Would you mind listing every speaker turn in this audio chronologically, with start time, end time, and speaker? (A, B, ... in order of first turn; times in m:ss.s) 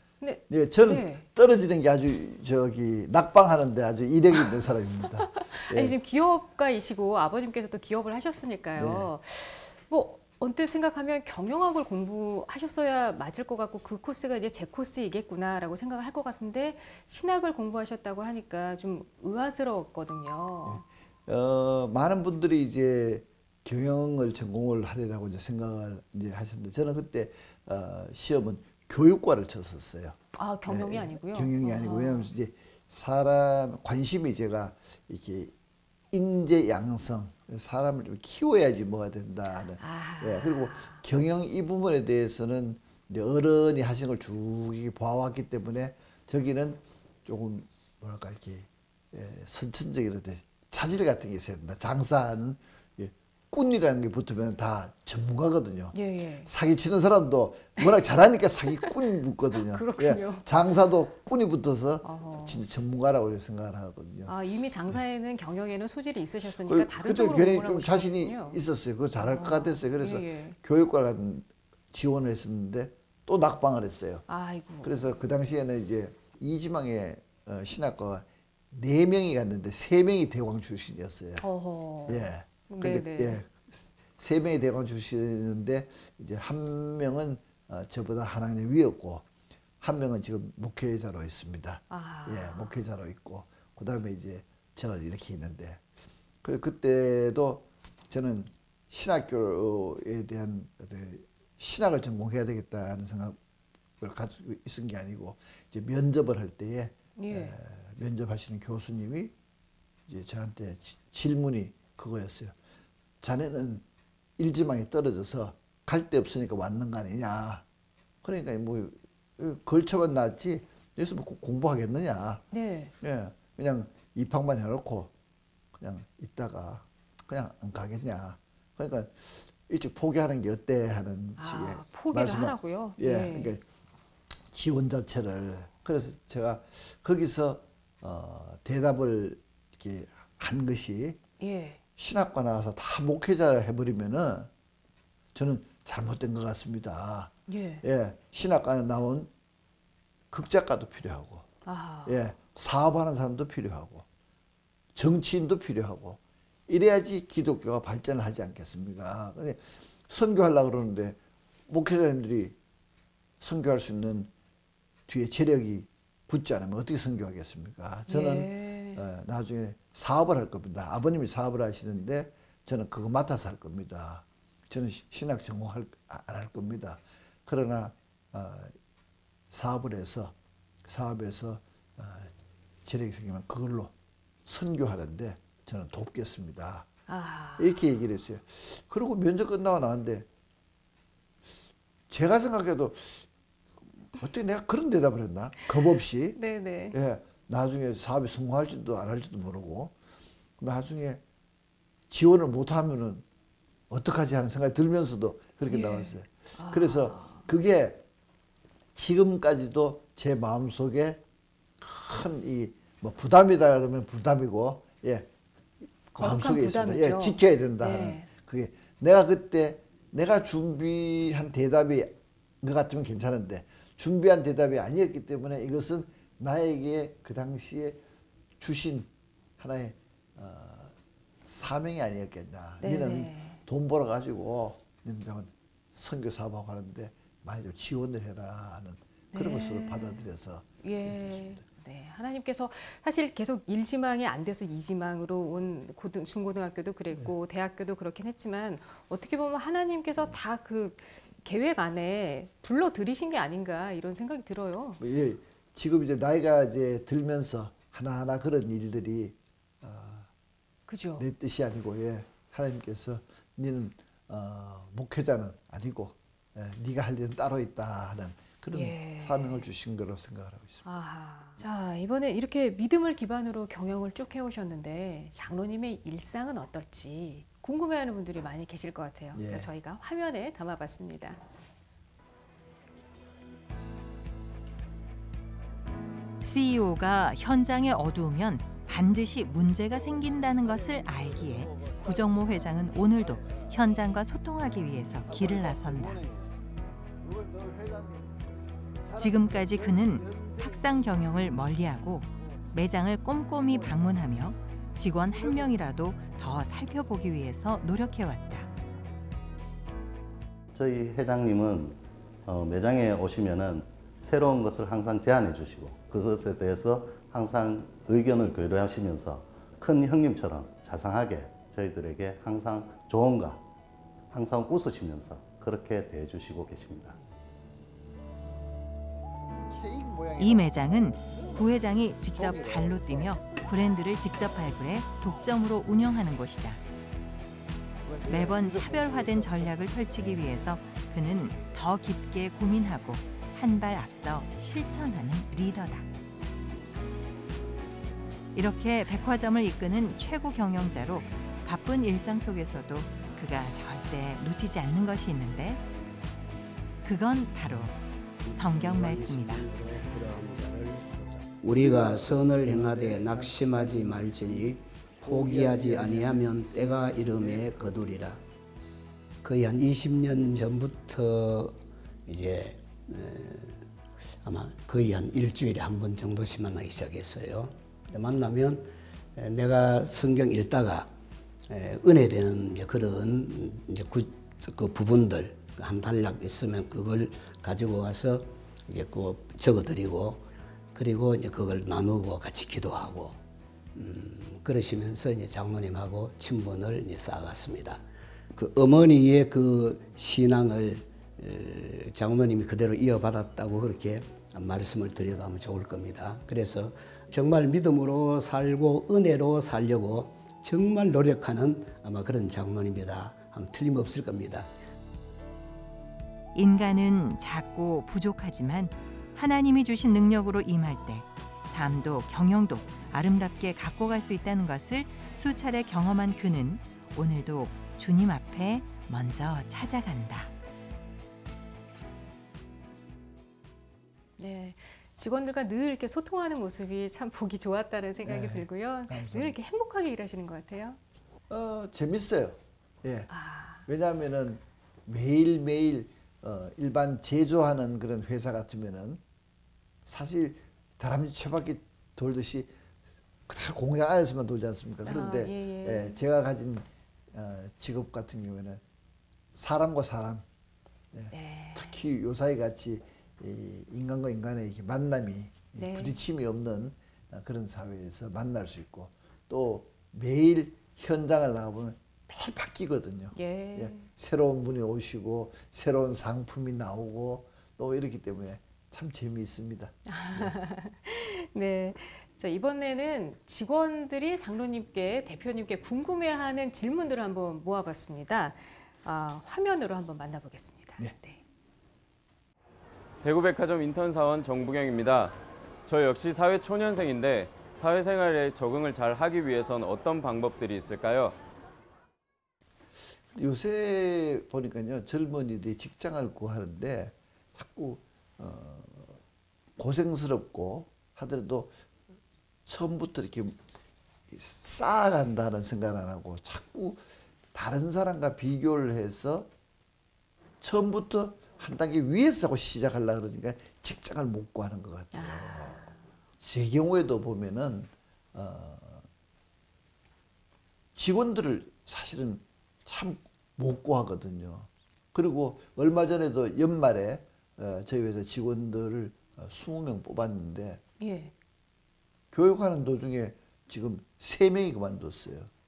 0:00.2-0:01.3 A
0:00.5-0:06.0 B
0:05.3-0:20.8 A
0:08.8-0:09.1 B
0:20.6-0:35.5 B
0:30.4-0:32.3 A
0:36.1-1:04.4 B
0:39.8-0:41.0 A
0:55.9-0:56.5 A
0:59.5-1:00.5 A
1:02.0-1:02.6 A
1:04.3-1:08.6 A
1:06.6-1:14.3 B
1:09.3-1:10.6 A
1:14.3-1:15.2 A
1:14.8-1:21.4 B
1:21.4-1:23.4 A
1:22.1-1:29.3 B
1:29.8-1:35.8 B
1:31.9-1:32.8 A
1:36.4-1:43.4 B
1:44.0-1:49.3 B
1:47.2-1:47.6 A
1:50.1-1:52.6 B
1:53.2-1:53.8 B
1:54.4-1:57.6 B
1:58.2-2:02.4 B
2:02.5-2:02.9 A
2:03.0-2:05.1 B
2:05.8-2:13.6 B
2:11.4-2:13.5 A
2:14.5-2:21.2 B
2:21.4-2:21.8 A
2:22.0-2:24.5 B
2:25.3-2:29.3 B
2:27.5-2:27.8 A
2:30.3-2:31.5 B
2:31.6-2:32.2 A
2:32.1-2:34.1 B
2:35.0-2:42.6 B
2:43.4-2:44.3 B
2:45.1-2:58.8 B
2:48.1-2:49.0 A
2:59.5-3:00.4 B
3:00.9-3:02.3 B
3:02.8-3:03.9 B
3:04.4-3:06.9 B
3:07.1-3:07.8 A
3:07.6-3:10.3 B
3:12.1-3:13.3 B
3:14.1-3:16.4 B
3:16.4-3:17.0 A
3:16.9-3:20.0 B
3:20.6-3:21.2 B
3:22.1-3:23.2 B
3:23.9-3:28.0 B
3:25.7-3:27.5 A
3:29.0-3:31.2 B
3:31.8-3:35.3 B
3:36.1-3:48.0 B
3:36.2-3:38.3 A
3:48.6-4:01.6 B
3:52.8-3:53.6 A
3:59.3-4:00.2 A
4:00.8-4:15.0 A
4:15.0-4:20.3 B
4:20.9-4:21.3 A
4:21.2-4:30.9 B
4:28.7-4:29.7 A
4:30.8-4:41.4 A
4:39.3-4:39.7 B
4:46.4-4:56.2 C
4:55.3-4:56.4 B
4:57.2-4:58.5 B
4:59.0-5:00.7 B
4:59.2-5:08.7 C
5:05.3-5:05.7 B
5:10.7-5:23.6 D
5:24.3-5:27.2 D
5:29.7-5:31.7 B
5:30.4-5:36.8 C
5:32.3-5:33.5 B
5:38.0-5:40.4 B
5:38.3-5:46.0 C
5:48.5-5:55.8 C
5:57.0-5:58.0 C
5:58.5-6:08.4 E
5:58.5-5:59.7 C
6:09.4-6:13.8 E
6:14.4-6:21.1 E
6:21.7-6:33.4 E
6:34.0-6:54.7 E
6:56.6-7:10.5 C
7:14.4-7:21.0 A
7:18.2-7:19.6 B
7:21.5-7:23.3 B
7:23.3-7:23.9 A
7:23.9-7:29.2 B
7:30.0-7:32.7 B
7:33.5-7:38.8 B
7:35.0-7:36.2 A
7:39.5-7:40.4 B
7:41.1-8:00.6 B
7:41.3-7:42.0 A
7:45.8-7:46.2 A
7:53.4-7:54.1 A
8:00.1-8:11.4 A
8:13.2-8:15.4 F
8:15.9-8:21.4 F
8:23.3-8:29.2 B
8:29.8-8:31.8 B
8:32.7-8:33.6 B
8:34.3-8:37.0 B
8:37.5-8:39.5 B
8:40.6-8:45.9 B
8:45.1-8:46.1 A
8:46.4-8:49.1 B
8:51.0-9:00.8 B
9:01.0-9:01.3 A
9:02.3-9:05.5 B